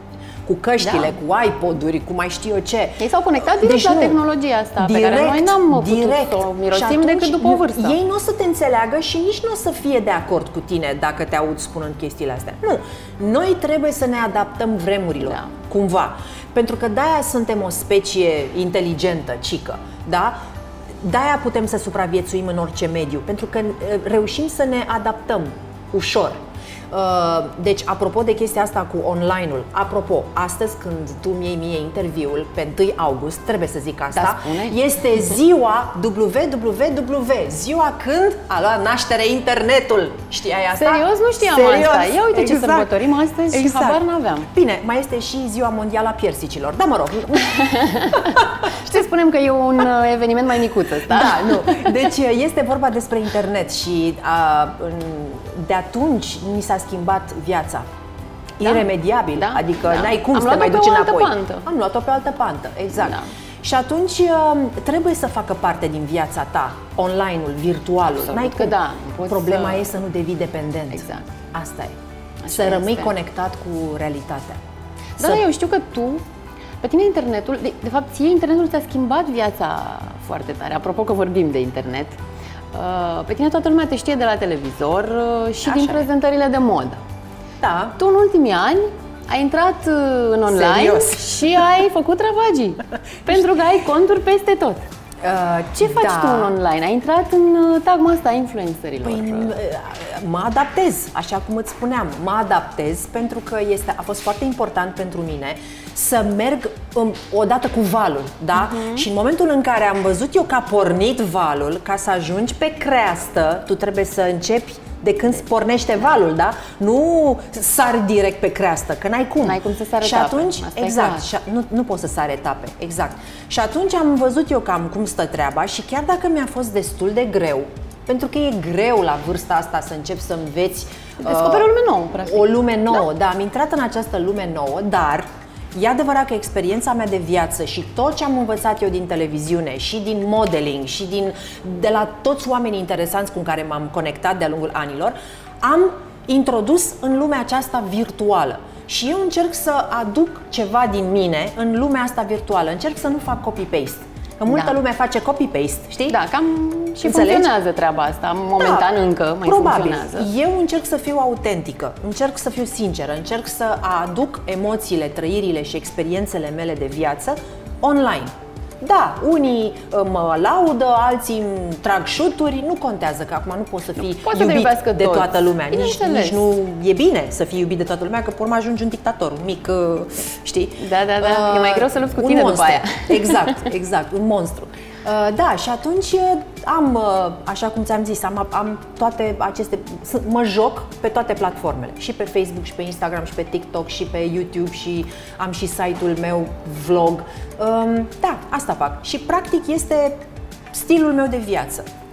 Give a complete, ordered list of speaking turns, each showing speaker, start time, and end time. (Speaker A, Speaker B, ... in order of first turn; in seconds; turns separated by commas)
Speaker A: 0.5-4.2, Speaker B: 0.8-1.1, Speaker B: 3.0-8.0, Speaker A: 4.8-20.4, Speaker B: 15.2-15.5, Speaker A: 21.0-26.4, Speaker A: 26.9-42.9, Speaker B: 34.1-34.8, Speaker B: 40.8-44.5, Speaker A: 43.5-44.0, Speaker A: 44.5-48.5, Speaker B: 47.5-52.0, Speaker A: 51.0-57.9, Speaker A: 58.6-72.0, Speaker B: 58.6-61.7, Speaker B: 63.0-63.3, Speaker B: 68.2-69.9, Speaker B: 70.9-71.3, Speaker B: 72.4-73.1, Speaker A: 72.5-74.6, Speaker B: 75.2-76.2, Speaker B: 76.8-82.2, Speaker B: 82.7-87.0, Speaker A: 85.6-86.1, Speaker A: 87.6-88.0, Speaker B: 88.0-94.8, Speaker A: 90.5-91.4, Speaker A: 95.2-96.5, Speaker B: 95.8-99.5, Speaker A: 99.0-131.7, Speaker B: 108.6-109.0, Speaker B: 119.4-121.3, Speaker B: 131.2-133.0, Speaker A: 132.2-156.2, Speaker B: 154.5-154.8, Speaker B: 156.1-160.3, Speaker A: 157.0-157.5, Speaker A: 158.6-158.9, Speaker A: 159.4-200.1, Speaker B: 174.2-176.4, Speaker B: 180.8-183.6, Speaker A: 200.7-201.9